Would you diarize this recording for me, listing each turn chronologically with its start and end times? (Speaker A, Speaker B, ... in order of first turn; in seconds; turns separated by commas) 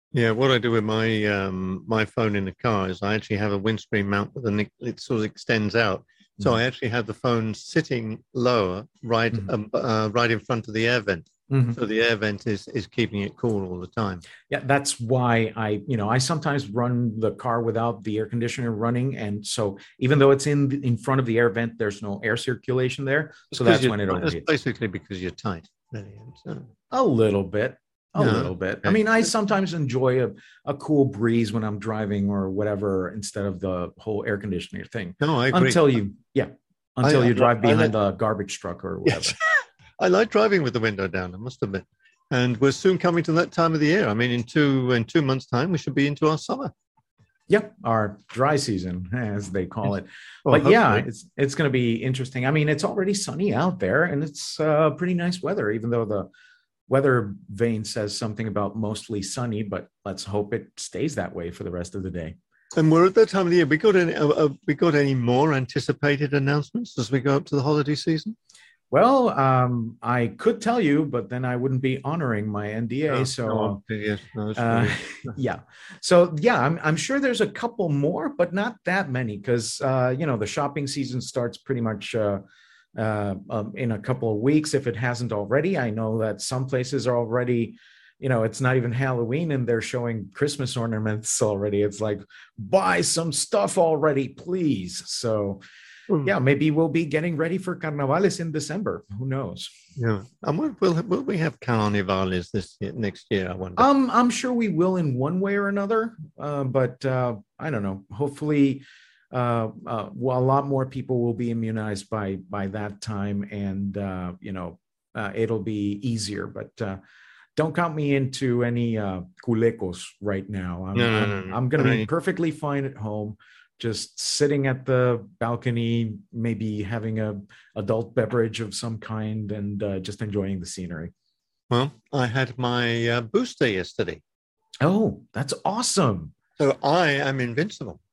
Speaker A: 0.1-14.2, Speaker B: 11.5-11.8, Speaker B: 14.5-24.5, Speaker A: 23.5-26.7, Speaker B: 26.9-39.4, Speaker A: 28.2-29.0, Speaker A: 35.2-35.9, Speaker A: 37.0-37.9, Speaker A: 39.1-46.7, Speaker B: 47.5-56.3, Speaker A: 50.5-51.1, Speaker B: 56.9-62.4, Speaker A: 62.8-68.4, Speaker B: 68.9-73.8, Speaker A: 73.1-75.3, Speaker B: 74.6-82.4, Speaker B: 83.0-95.6, Speaker B: 96.2-99.7, Speaker A: 100.0-103.9, Speaker B: 103.8-117.0, Speaker B: 117.6-131.1, Speaker A: 121.0-122.1, Speaker A: 131.7-134.2, Speaker B: 134.8-136.3, Speaker A: 136.6-138.0